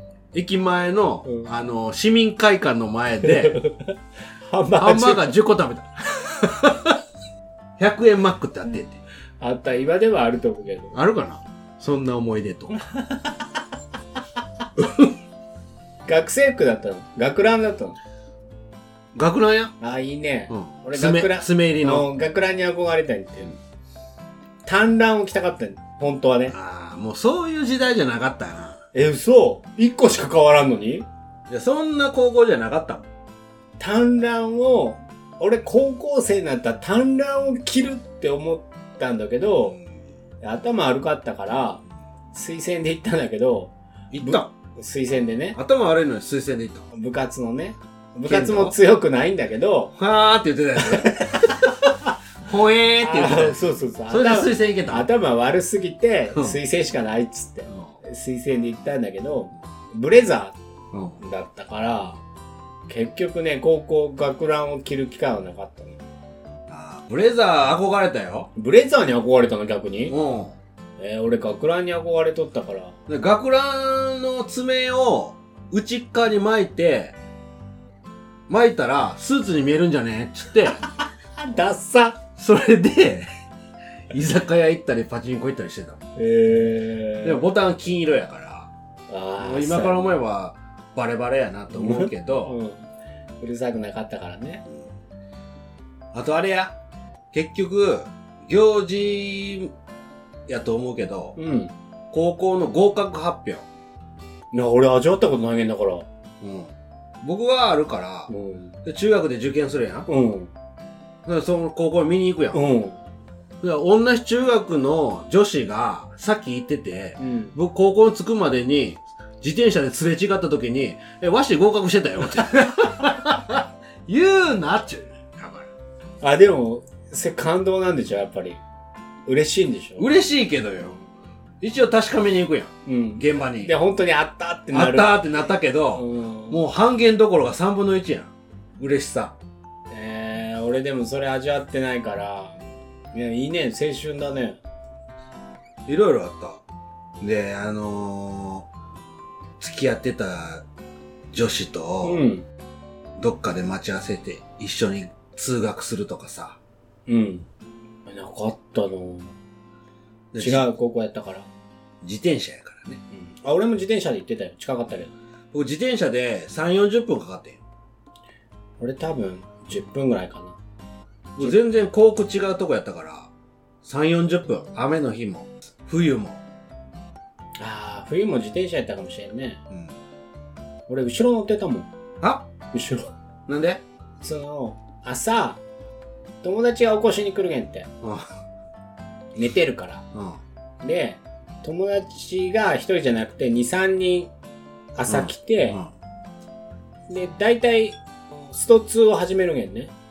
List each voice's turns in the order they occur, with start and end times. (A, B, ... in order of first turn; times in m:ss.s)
0:00.3-0:03.6 A
0:01.2-0:01.5 B
0:03.2-0:05.4 B
0:04.8-0:07.0 A
0:07.8-0:09.0 A
0:09.4-0:11.0 B
0:10.9-0:12.8 A
0:14.8-0:15.0 A
0:16.1-0:18.0 B
0:19.1-0:19.8 A
0:19.8-0:23.5 B
0:20.5-0:22.1 A
0:24.6-0:26.6 B
0:26.5-0:28.8 A
0:28.9-0:31.1 B
0:31.5-0:33.1 A
0:33.8-0:39.8 B
0:40.4-0:41.8 B
0:42.3-0:45.6 B
0:44.1-0:44.5 A
0:45.6-0:46.9 A
0:46.9-0:50.0 B
0:48.3-0:48.8 A
0:50.0-0:51.6 A
0:50.8-0:51.9 B
0:52.5-0:53.6 A
0:53.0-1:00.6 B
0:54.1-0:55.1 A
1:00.9-1:01.2 A
1:01.2-1:02.2 B
1:02.9-1:06.0 B
1:06.7-1:08.5 A
1:08.6-1:10.2 B
1:10.1-1:10.6 A
1:11.0-1:13.0 B
1:13.1-1:17.1 A
1:18.5-1:20.8 A
1:21.4-1:22.2 B
1:22.4-1:23.3 A
1:24.1-1:26.0 A
1:26.2-1:27.4 B
1:27.2-1:28.7 A
1:29.1-1:30.1 B
1:29.4-1:32.5 A
1:31.7-1:32.9 B
1:33.4-1:34.6 B
1:36.1-1:36.8 A
1:37.3-1:39.7 A
1:40.5-1:41.4 A
1:41.4-1:41.7 B
1:42.1-1:43.6 A
1:44.5-1:46.1 B
1:46.4-1:48.3 A
1:48.3-1:48.8 B
1:48.8-1:50.1 A
1:50.1-1:50.5 B
1:51.2-1:52.6 A
1:52.5-1:53.0 B
1:53.6-2:05.7 A
1:57.2-1:57.6 B
2:06.2-2:08.6 B
2:09.3-2:10.1 B
2:10.0-2:11.0 A
2:11.6-2:13.7 A
2:12.9-2:15.3 B
2:14.7-2:19.4 A
2:16.0-2:16.6 B
2:19.9-2:22.6 B
2:23.1-2:24.6 B
2:25.9-2:26.6 A
2:27.2-2:28.7 A
2:29.6-2:30.6 A
2:31.3-2:32.2 A
2:32.0-2:32.4 B
2:33.2-2:36.6 A
2:37.1-2:37.5 B
2:38.1-2:39.4 B
2:40.3-2:40.6 A
2:40.4-2:41.5 B
2:42.0-2:43.0 A
2:43.1-2:45.1 B
2:45.5-2:47.6 A
2:48.8-2:50.6 B
2:51.4-2:53.3 A
2:53.8-2:56.4 A
2:57.6-2:59.6 B
3:00.9-3:01.9 B
3:02.2-3:02.5 A
3:02.7-3:03.1 B
3:03.5-3:03.8 A
3:04.2-3:05.6 B
3:06.4-3:07.9 B
3:08.0-3:08.3 A
3:09.4-3:10.1 B
3:10.1-3:10.4 A
3:10.8-3:14.3 B
3:15.0-3:15.8 B
3:15.1-3:15.9 A
3:17.1-3:19.9 B